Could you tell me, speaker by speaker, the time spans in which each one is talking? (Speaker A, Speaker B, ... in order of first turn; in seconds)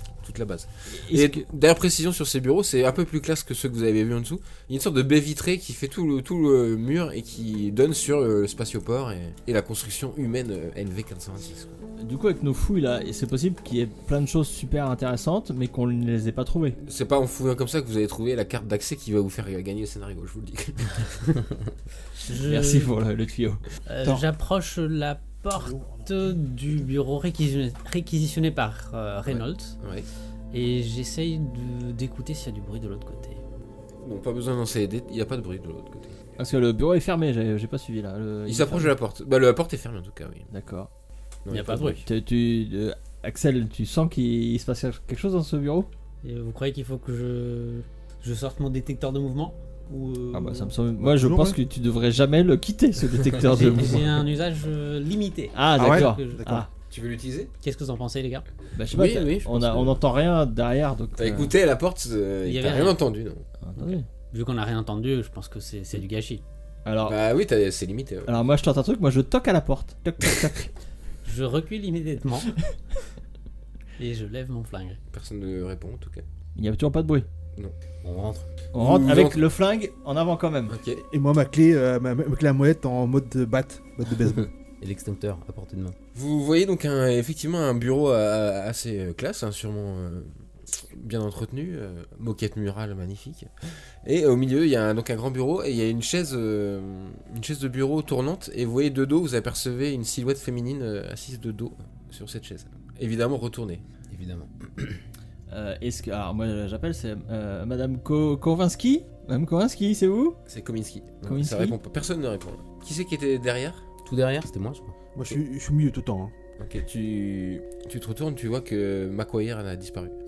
Speaker A: 0.2-11.7, 16.8-21.4, 29.3-30.1, 34.0-36.1, 38.5-40.5, 41.5-42.0, 56.9-57.5, 61.2-63.4, 67.0-68.3, 75.1-76.2, 78.8-79.4, 80.7-81.0, 86.1-90.3, 90.9-93.5, 94.0-103.8, 110.5-113.8, 116.6-120.2
Speaker B: 0.9-1.4, 12.0-16.8, 22.4-23.6, 36.4-38.9, 40.5-40.9, 42.0-45.9, 50.3-54.2, 55.5-56.7, 58.8-61.5, 63.6-64.0, 66.8-67.2, 68.3-70.7, 76.6-77.3, 78.7-80.8, 105.5-110.4, 111.3-111.8
Speaker C: 22.3-22.9, 23.9-29.8, 30.5-33.4, 41.5-42.0, 46.2-50.7, 53.4-56.4, 57.6-58.5, 62.5-63.0, 63.8-66.4, 71.2-72.5, 74.0-75.0
Speaker D: 25.6-26.3, 51.0-51.6, 55.8-56.7, 81.0-84.5, 115.2-116.3
Speaker E: 58.9-60.0, 78.0-78.5, 84.8-86.0, 104.1-105.0, 114.0-115.0